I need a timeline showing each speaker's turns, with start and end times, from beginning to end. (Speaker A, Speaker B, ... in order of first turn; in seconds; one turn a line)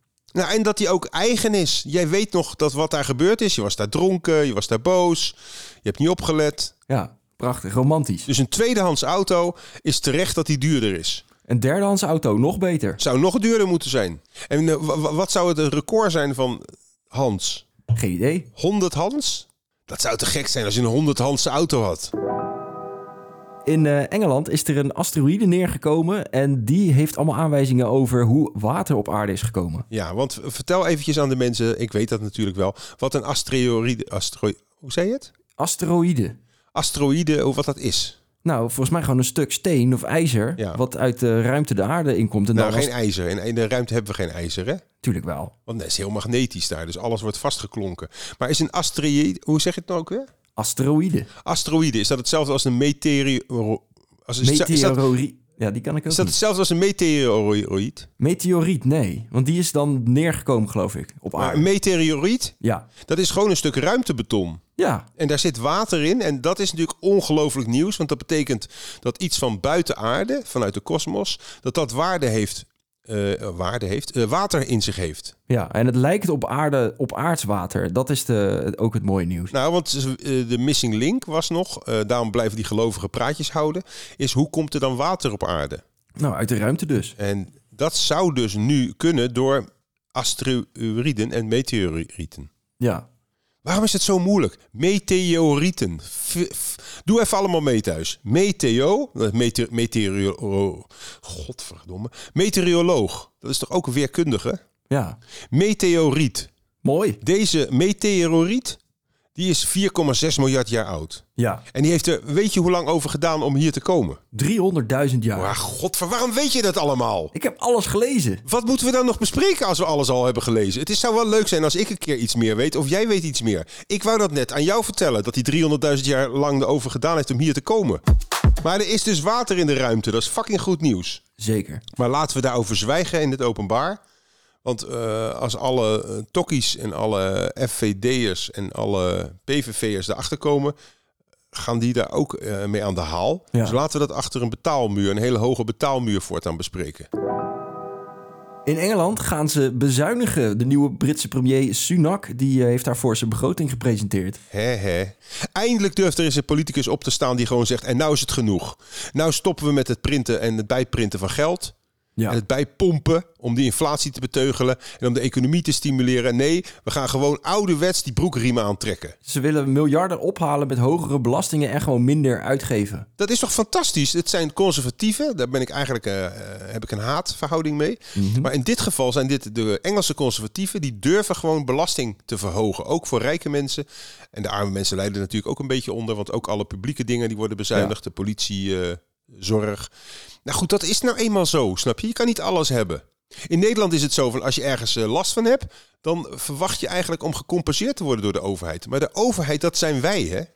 Speaker A: 0.3-6.7
Speaker B: 6.9-8.3
Speaker A: 8.3-11.2
Speaker B: 11.5-13.0
Speaker A: 13.0-17.6
Speaker B: 17.9-18.5
Speaker A: 18.6-22.1
Speaker B: 23.6-29.9
Speaker A: 29.9-35.3
Speaker B: 35.6-36.4
Speaker A: 36.7-38.2
Speaker B: 38.4-42.9
Speaker A: 42.5-44.8
Speaker B: 45.0-45.5
Speaker A: 45.7-50.3
Speaker B: 50.5-51.3
Speaker A: 51.4-55.0
Speaker B: 54.4-56.3
Speaker A: 56.1-58.1
Speaker B: 58.2-61.6
Speaker A: 61.4-64.6
Speaker B: 62.6-62.9
Speaker B: 64.8-65.1
Speaker A: 65.2-75.3
Speaker B: 75.5-79.5
Speaker A: 79.5-85.8
Speaker B: 86.2-87.1
Speaker A: 87.2-92.5
Speaker B: 92.8-93.0
Speaker A: 93.6-104.6
Speaker B: 104.9-105.2
Speaker A: 105.5-106.5
Speaker B: 106.8-107.2
Speaker A: 107.2-108.8
Speaker A: 109.3-114.2
Speaker B: 111.4-111.6
Speaker B: 114.3-115.5
Speaker A: 115.3-117.3
Speaker B: 117.3-118.4
Speaker A: 118.4-128.0
Speaker A: 128.6-131.2
Speaker B: 131.4-131.8
Speaker A: 131.9-134.0
Speaker A: 134.6-140.7
Speaker A: 141.5-147.1
Speaker B: 148.6-154.4
Speaker A: 154.5-161.7
Speaker A: 162.3-169.2
Speaker B: 169.2-173.1
Speaker A: 173.2-189.9
Speaker B: 178.2-178.5
Speaker A: 190.4-200.5